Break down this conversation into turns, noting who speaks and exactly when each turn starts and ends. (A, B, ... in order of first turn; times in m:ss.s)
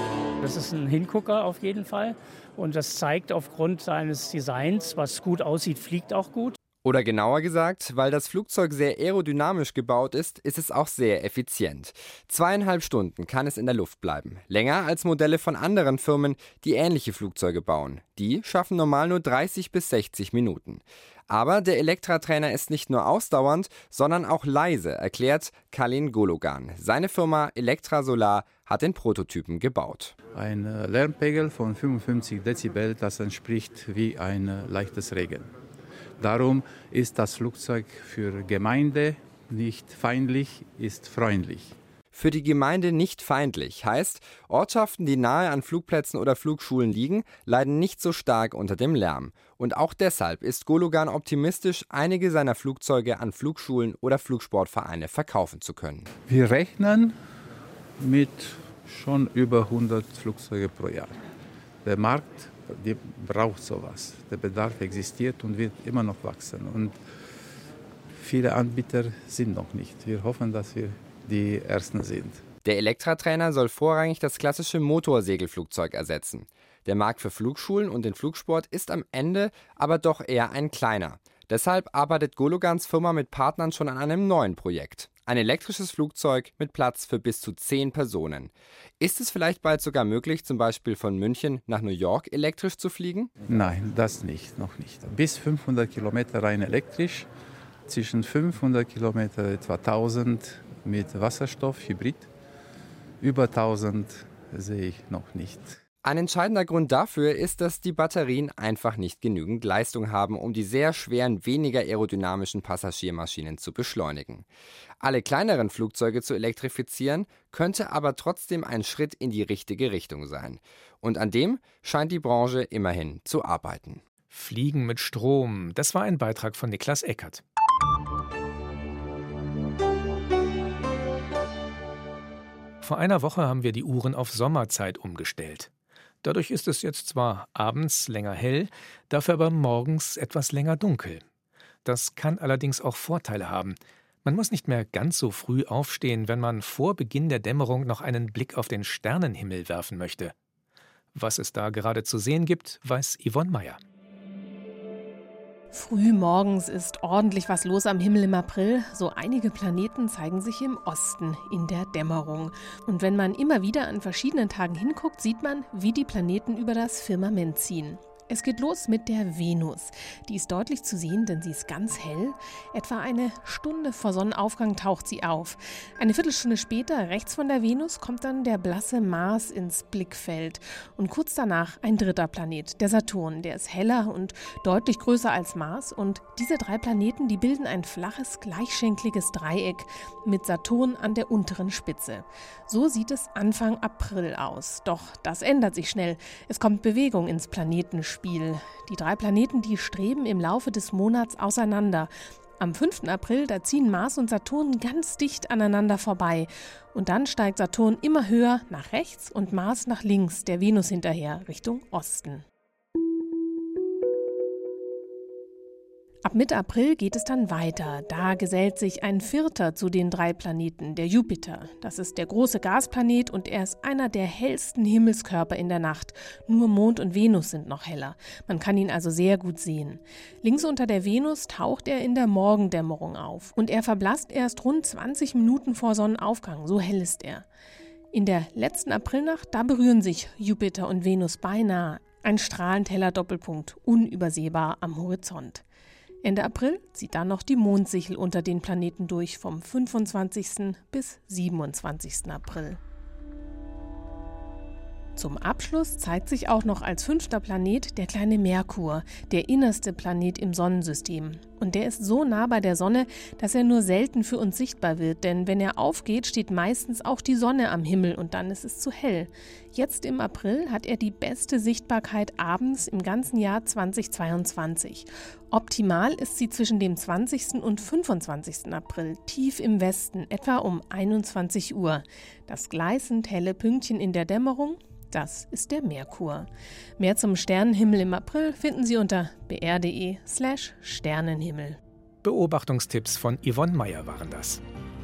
0:00.4-0:06.6 A
0:06.8-0:30.1 B
0:30.3-0:35.5 C
0:36.2-0:41.8 C
0:42.1-0:56.0 B
0:56.2-0:57.1 C
0:58.0-1:01.2 C
1:01.8-1:07.0 C
1:08.1-1:12.4 C
1:12.6-1:33.3 B
1:33.4-1:37.3 C
1:37.9-1:42.3 C
1:43.2-1:45.8 C
1:46.0-1:54.4 B
1:55.0-2:04.0 B
2:04.3-2:07.4 D
2:12.8-2:15.7 D
2:16.2-2:21.2 D
2:21.8-2:30.3 D
2:31.1-2:33.8 D
2:35.7-3:32.4 E
3:36.2-3:57.4 E
3:58.1-4:05.6 E
4:06.2-4:12.8 E
4:15.2-4:51.8 E
4:52.2-4:54.6 D